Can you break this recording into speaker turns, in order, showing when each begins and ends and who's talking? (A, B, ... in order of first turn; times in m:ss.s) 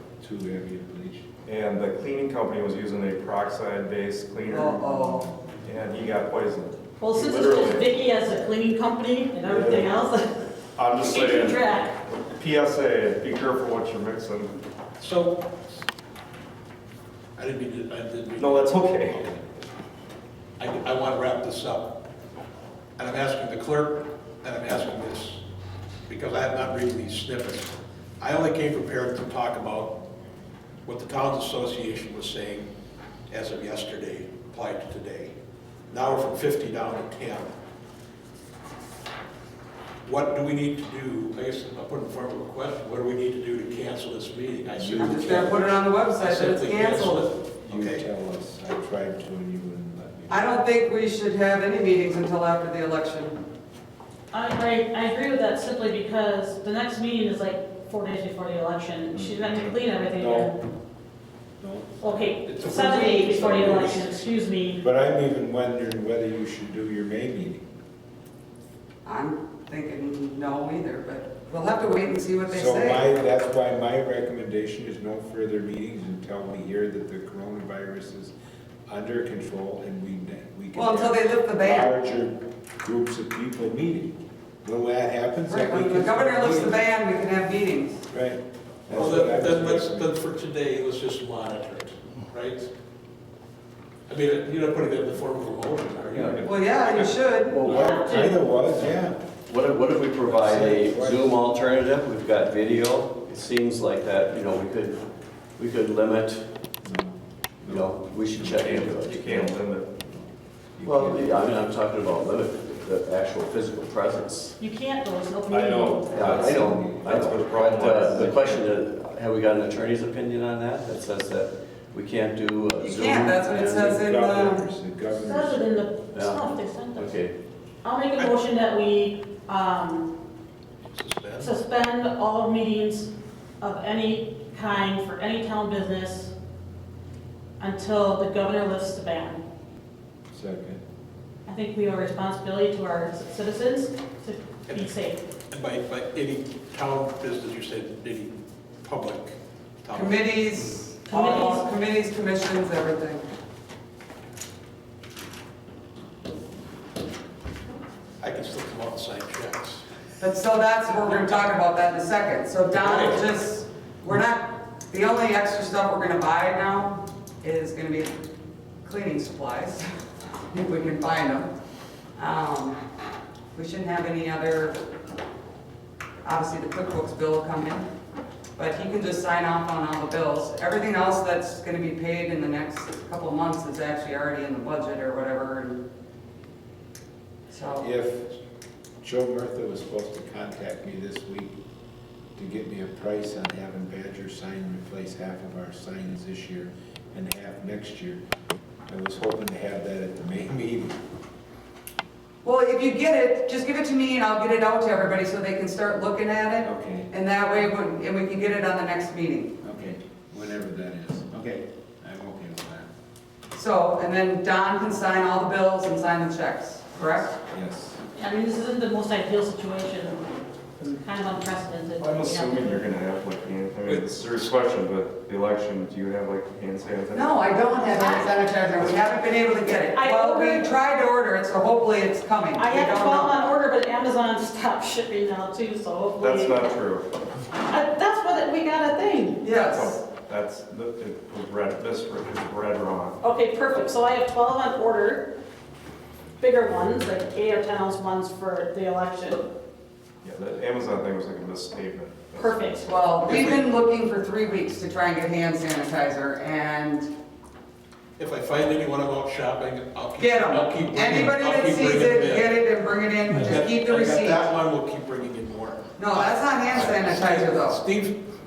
0:00.2-0:01.2 A
0:01.4-0:05.0 B
0:04.5-0:05.3 C
0:05.0-0:05.3 A
0:05.6-0:07.9 B
0:07.0-0:10.4 D
0:09.4-0:09.9 B
0:10.8-0:14.6 B
0:11.0-0:12.0 D
0:15.0-0:15.6 E
0:17.4-0:19.4 E
0:18.4-0:19.2 B
0:20.6-0:22.0 E
0:23.0-0:25.4 E
0:26.1-0:30.0 E
0:30.8-0:32.7 E
0:33.3-0:35.3 E
0:35.9-0:37.5 E
0:40.0-0:48.0 E
0:44.7-0:45.6 A
0:45.0-0:47.3 C
0:47.6-0:50.6 A
0:50.3-0:53.4 C
0:54.3-1:00.5 D
1:00.2-1:00.5 A
1:01.6-1:02.1 A
1:02.0-1:04.8 D
1:02.4-1:04.3 E
1:04.8-1:07.6 A
1:09.0-1:13.1 C
1:12.4-1:18.3 A
1:18.9-1:26.8 A
1:20.7-1:21.9 C
1:25.5-1:28.0 C
1:28.1-1:30.1 A
1:28.9-1:32.7 E
1:34.1-1:36.4 E
1:36.2-1:37.2 B
1:36.4-1:37.6 C
1:37.5-1:37.9 F
1:37.6-1:39.2 A
1:37.6-1:38.4 D
1:39.5-1:45.0 F
1:40.3-1:41.3 A
1:45.6-1:46.4 F
1:46.8-1:48.6 A
1:47.7-1:49.5 F
1:48.4-1:50.0 B
1:50.8-1:54.6 F
1:54.6-1:56.3 D
1:55.5-1:58.6 B
1:56.1-2:04.0 F
1:56.5-1:57.0 A
2:02.8-2:04.6 C
2:04.0-2:05.6 A
2:05.1-2:07.2 D
2:06.1-2:07.3 F
2:07.8-2:10.1 D
2:10.9-2:11.5 E
2:11.4-2:16.3 D
2:17.6-2:19.4 D
2:20.3-2:20.8 A
2:21.4-2:25.2 D
2:24.7-2:24.9 E
2:25.5-2:30.3 E
2:29.9-2:33.2 C
2:31.1-2:31.7 D
2:38.2-2:39.8 E
2:40.2-2:48.1 C
2:42.7-2:43.2 E
2:48.8-2:49.8 C
2:50.5-2:51.5 C
2:52.2-2:52.8 C
2:53.5-2:54.8 C
2:56.2-2:57.9 C
2:58.6-3:05.8 C
3:07.5-3:07.9 C
3:07.8-3:08.3 A
3:09.0-3:11.6 A
3:12.4-3:18.2 A
3:18.9-3:21.0 A
3:22.4-3:29.5 C
3:26.6-3:27.1 A
3:29.6-3:32.9 A
3:33.5-3:37.3 C
3:37.5-3:38.0 A
3:38.2-3:40.3 D
3:40.8-3:42.9 D
3:42.0-3:47.5 B
3:47.1-3:53.4 C
3:49.9-3:50.7 D
3:52.6-3:56.6 D
3:56.2-3:57.1 B
3:57.6-3:59.4 D
3:59.4-4:00.0 C
3:59.6-4:03.2 B
4:03.2-4:05.3 D
4:06.4-4:09.4 D
4:10.2-4:12.5 B
4:12.3-4:12.9 D
4:12.8-4:17.1 C
4:13.2-4:13.6 E
4:18.2-4:22.6 E
4:20.2-4:24.5 C
4:23.3-4:28.2 E
4:26.0-4:27.8 C